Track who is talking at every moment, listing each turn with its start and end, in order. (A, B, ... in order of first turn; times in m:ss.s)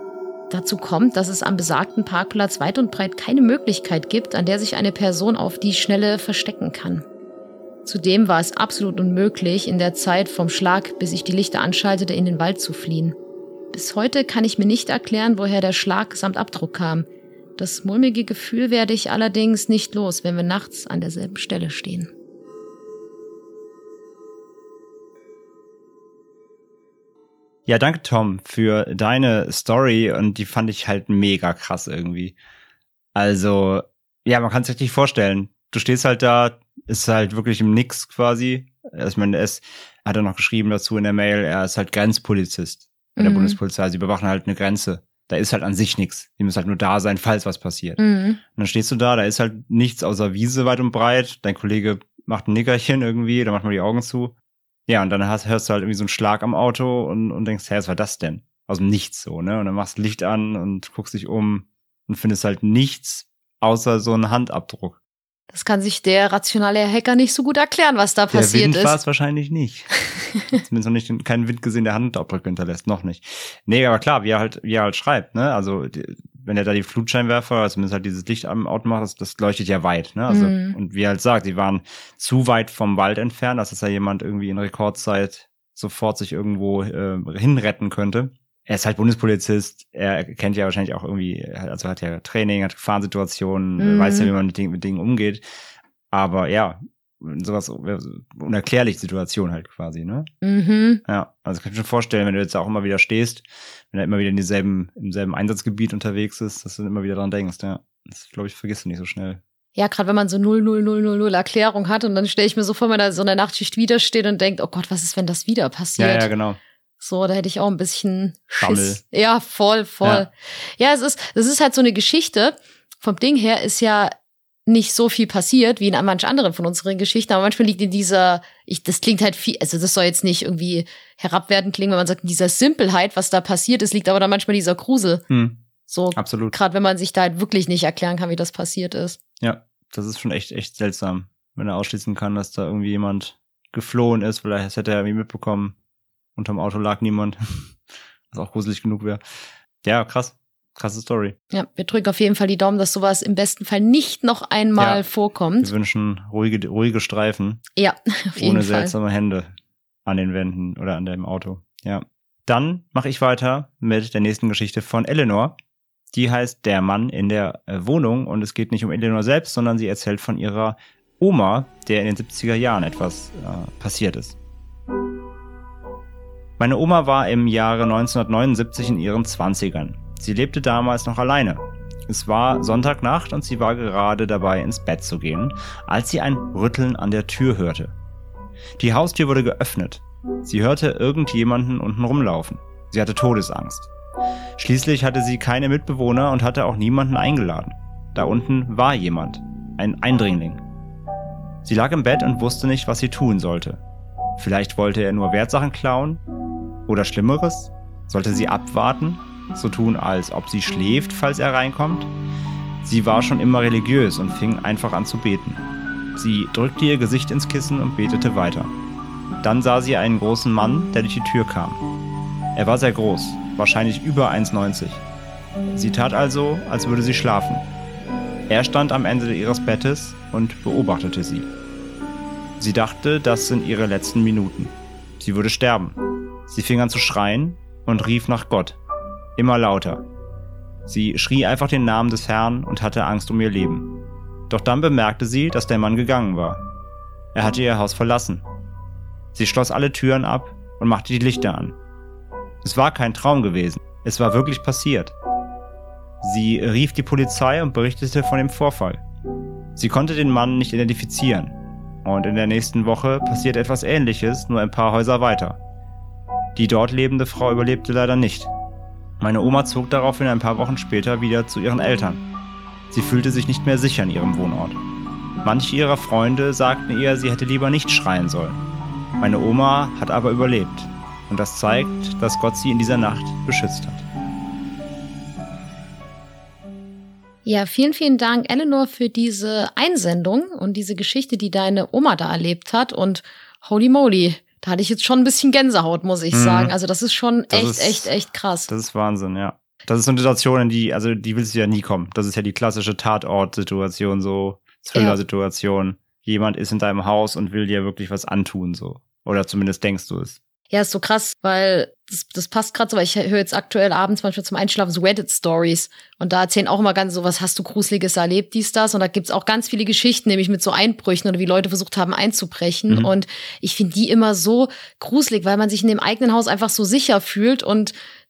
0:00.5-0:07.0 A
0:07.8-0:13.2 A
0:13.7-0:22.1 A
0:27.7-0:32.4 B
0:33.1-0:48.0 B
0:43.2-0:43.6 A
0:48.0-0:48.4 A
0:48.5-0:54.3 B
0:54.9-1:05.0 B
1:05.5-1:09.0 A
1:08.3-1:09.9 B
1:10.5-1:35.4 B
1:20.3-1:20.8 A
1:33.8-1:34.3 A
1:36.1-1:40.3 B
1:40.4-1:41.0 A
1:41.0-1:49.4 B
1:49.8-1:56.3 A
1:56.0-1:56.6 B
1:57.0-2:04.1 A
1:58.6-1:59.0 B
2:04.7-2:15.2 A
2:15.3-2:15.6 B
2:15.9-2:19.2 A
2:16.1-2:16.5 B
2:19.4-2:25.7 B
2:26.4-2:27.8 B
2:28.3-2:29.2 B
2:29.8-2:31.4 B
2:31.5-2:35.7 A
2:34.8-2:35.0 B
2:35.6-2:37.6 B
2:37.8-2:38.9 A
2:38.4-2:39.5 B
2:40.0-2:45.6 B
2:46.1-2:54.4 B
2:56.6-3:07.9 B
3:08.8-3:13.9 B
3:14.6-3:20.6 B
3:21.6-3:23.8 B
3:24.4-3:26.2 B
3:26.9-3:32.1 B
3:32.8-3:35.6 B
3:36.2-3:38.7 B
3:39.4-3:41.8 B
3:42.5-3:45.0 B
3:45.7-3:47.6 B
3:48.5-3:51.5 B
3:52.6-3:56.0 B
3:56.5-3:58.8 B
3:59.4-4:00.0 B
4:00.8-4:03.9 B
4:04.5-4:06.6 B
4:07.3-4:08.4 B
4:09.3-4:11.8 B
4:12.6-4:15.1 B
4:16.2-4:19.0 B
4:19.8-4:25.6 B
4:26.6-4:28.5 B
4:29.2-4:32.2 B
4:32.9-4:34.8 B
4:35.4-4:38.6 B
4:39.2-4:44.0 B
4:47.4-4:58.7 A
4:56.3-4:56.7 B
4:57.5-4:58.1 B
4:58.7-5:10.4 B
5:10.7-5:27.9 A